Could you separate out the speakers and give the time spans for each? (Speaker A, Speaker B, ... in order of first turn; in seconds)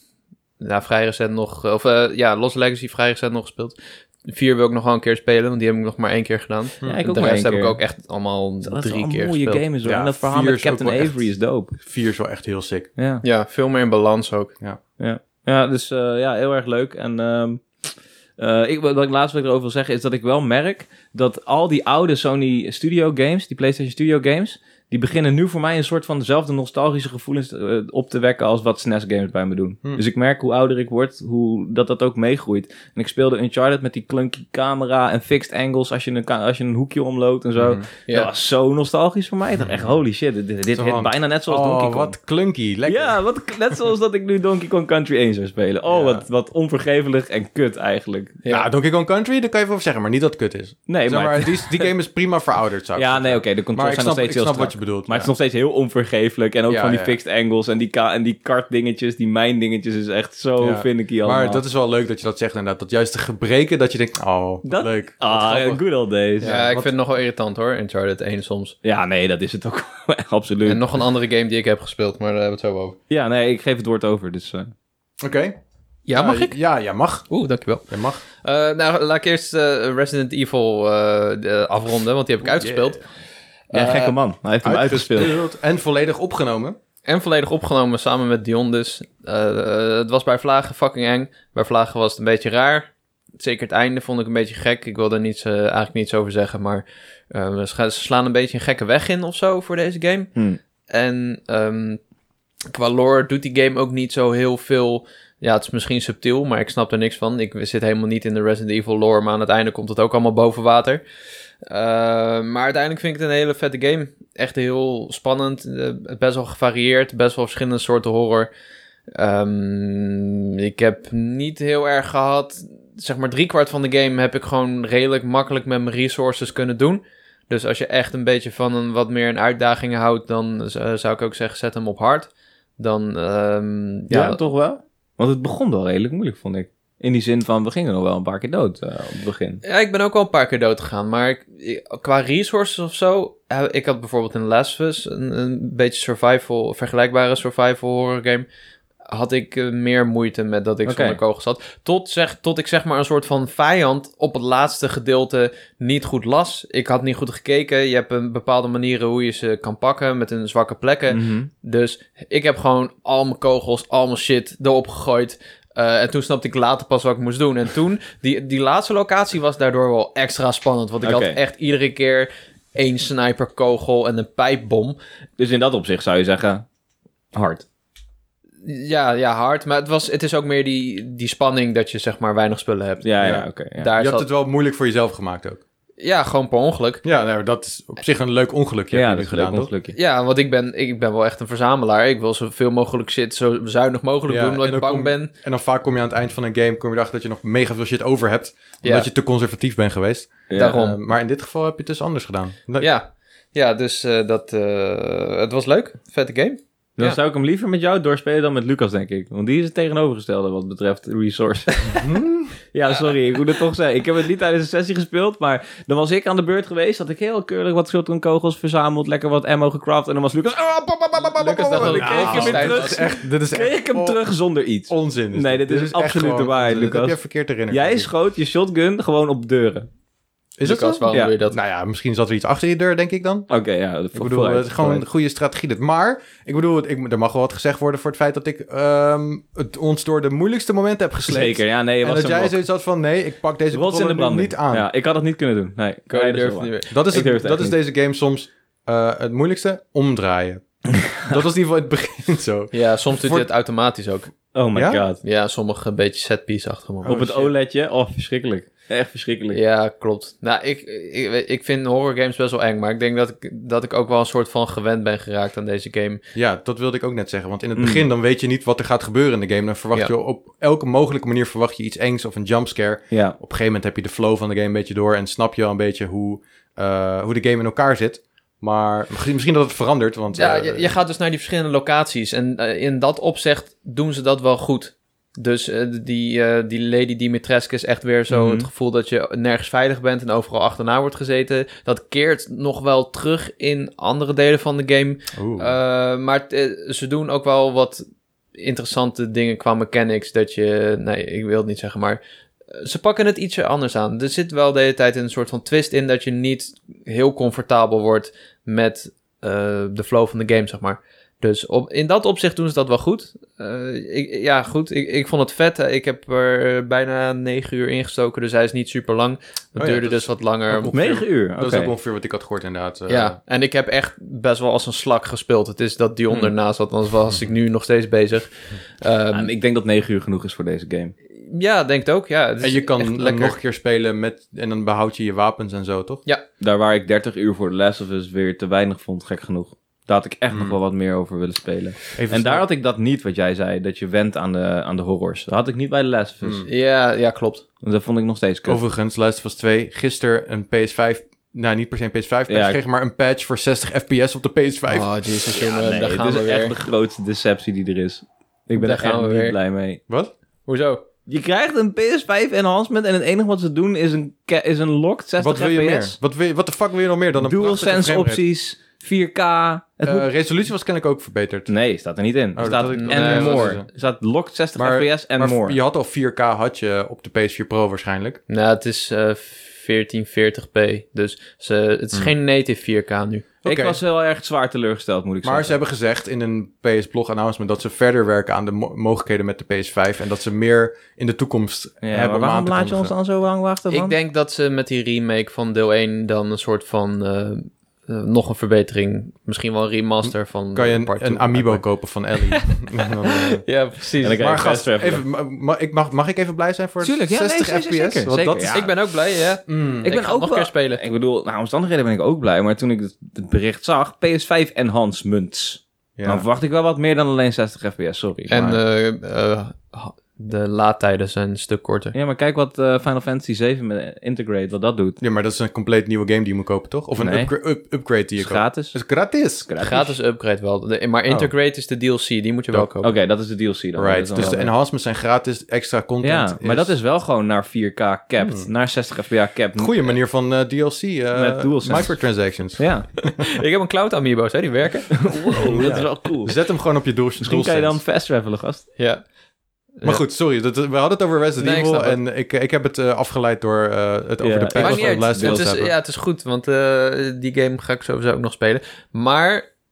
Speaker A: 0.6-9.6, 13.2-14.5, 66.4-68.7, 70.6-73.0, 76.1-76.6, 77.3-83.0, 83.7-84.1, 87.0-100.3, 100.9-102.0, 102.7-111.0, 111.7-118.5, 119.1-134.4, 139.6-148.5, 149.1-175.0, 178.6-184.3, 186.0-187.0, 189.9-195.3, 198.8-199.1, 200.6-201.0, 202.8-207.2, 221.4-223.2, 230.6-231.6, 246.1-246.9, 252.7-254.3, 255.2-257.5, 259.5-266.2, 280.3-298.0, 298.6-302.2, 302.7-321.1, 323.1-329.5, 331.4-333.6, 346.6-347.6, 354.9-356.7, 358.8-359.6, 360.7-361.1, 372.9-373.8, 378.5-383.4, 393.9-401.8, 402.4-404.5, 408.7-411.0, 418.5-422.1, 429.8-433.1, 443.4-446.1, 449.0-449.2, 450.0-450.2, 451.6-452.2, 454.8-459.7
Speaker B: 6.8-7.8, 8.6-11.8, 13.0-13.2, 15.0-17.6, 18.4-42.1, 42.9-48.4, 50.9-51.9, 53.0-61.6, 64.6-66.5, 68.8-70.8, 73.1-74.7, 83.7-85.4, 134.1-139.6, 150.8-151.2, 161.1-161.5, 171.0-171.4, 175.4-176.7, 177.3-177.6, 183.0-183.9, 188.9-189.9, 200.5-200.8, 207.0-212.0, 212.7-227.2, 227.7-229.9, 233.5-235.1, 241.2-242.6, 243.7-247.8, 254.6-255.2, 257.1-259.6, 267.8-268.0, 273.1-273.4, 320.9-321.9, 329.3-331.1, 336.6-346.7, 347.8-348.8, 352.5-352.8, 355.5-360.0, 361.3-366.2, 367.4-370.3, 371.7-375.8, 383.6-385.8, 392.0-394.1, 404.2-405.2, 407.0-408.9, 410.0-418.6, 422.1-425.2, 427.2-427.5, 428.4-429.0, 429.6-430.1, 433.0-434.7, 436.2-440.2, 441.3-443.1, 445.2-446.6, 447.4-448.9, 454.4-455.7
Speaker C: 9.8-12.9, 37.5-37.9, 39.6-39.9, 40.7-43.2, 45.9-46.2, 48.5-55.3, 56.7-57.1, 60.6-65.8, 66.4-66.9, 75.2-75.6, 76.1-77.3, 77.9-78.2, 82.6-83.0, 84.6-86.8, 183.2-185.6, 187.0-189.7, 194.3-202.9, 211.9-212.6, 221.3-224.2, 224.9-228.1, 230.6-233.5, 234.1-244.9, 246.9-253.5, 254.7-255.0, 257.0-257.5, 266.4-280.9, 288.3-288.6, 295.4-295.7, 319.8-323.4, 332.6-336.2, 340.5-340.8, 342.1-342.6, 346.4-346.7, 348.6-355.1, 360.1-360.3, 365.4-368.4, 370.0-371.7, 372.6-373.9, 374.8-378.4, 383.6-384.0, 385.4-393.1, 400.2-403.6, 404.3-408.8, 409.7-410.1, 416.2-416.4, 418.5-418.8, 425.2-429.7, 433.9-437.0, 438.4-438.7, 439.8-442.9, 445.7-448.0, 450.0-455.9